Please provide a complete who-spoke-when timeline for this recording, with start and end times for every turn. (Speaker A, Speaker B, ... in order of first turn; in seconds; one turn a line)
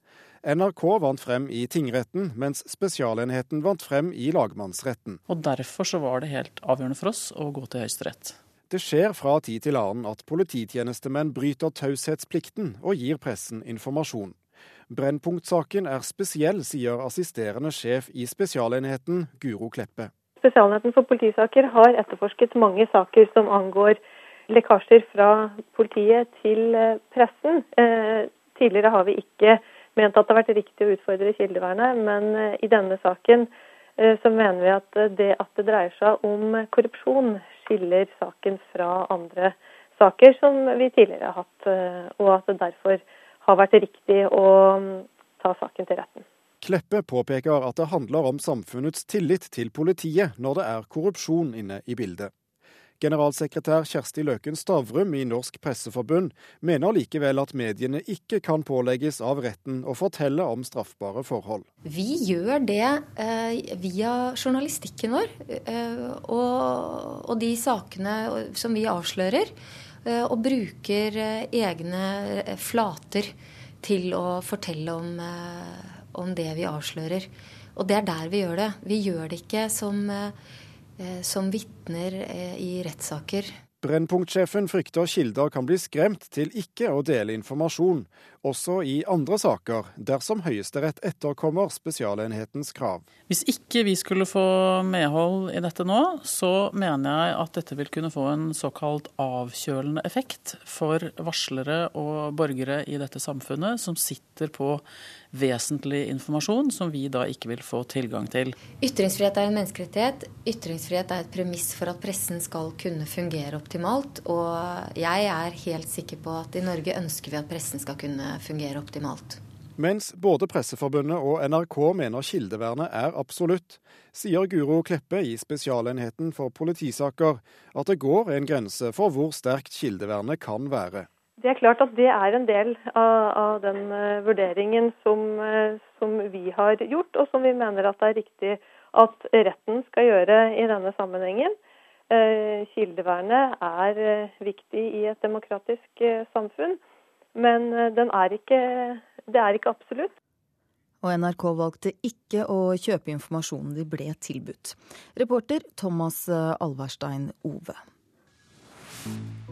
Speaker A: 0.4-5.2
Speaker B: 5.3-8.4
Speaker A: 8.7-14.3
Speaker A: 14.9-20.1
Speaker C: 20.4-24.0
Speaker C: 24.5-46.2
Speaker A: 46.6-52.3
Speaker A: 53.0-61.6
Speaker D: 61.8-69.5
Speaker D: 70.0-80.4
Speaker D: 81.0-83.5
Speaker A: 83.8-93.0
Speaker B: 93.3-108.6
Speaker D: 108.7-119.4
Speaker A: 119.8-131.1
Speaker C: 131.4-141.6
Speaker C: 142.1-146.8
Speaker C: 147.3-150.1
Speaker E: 151.0-157.8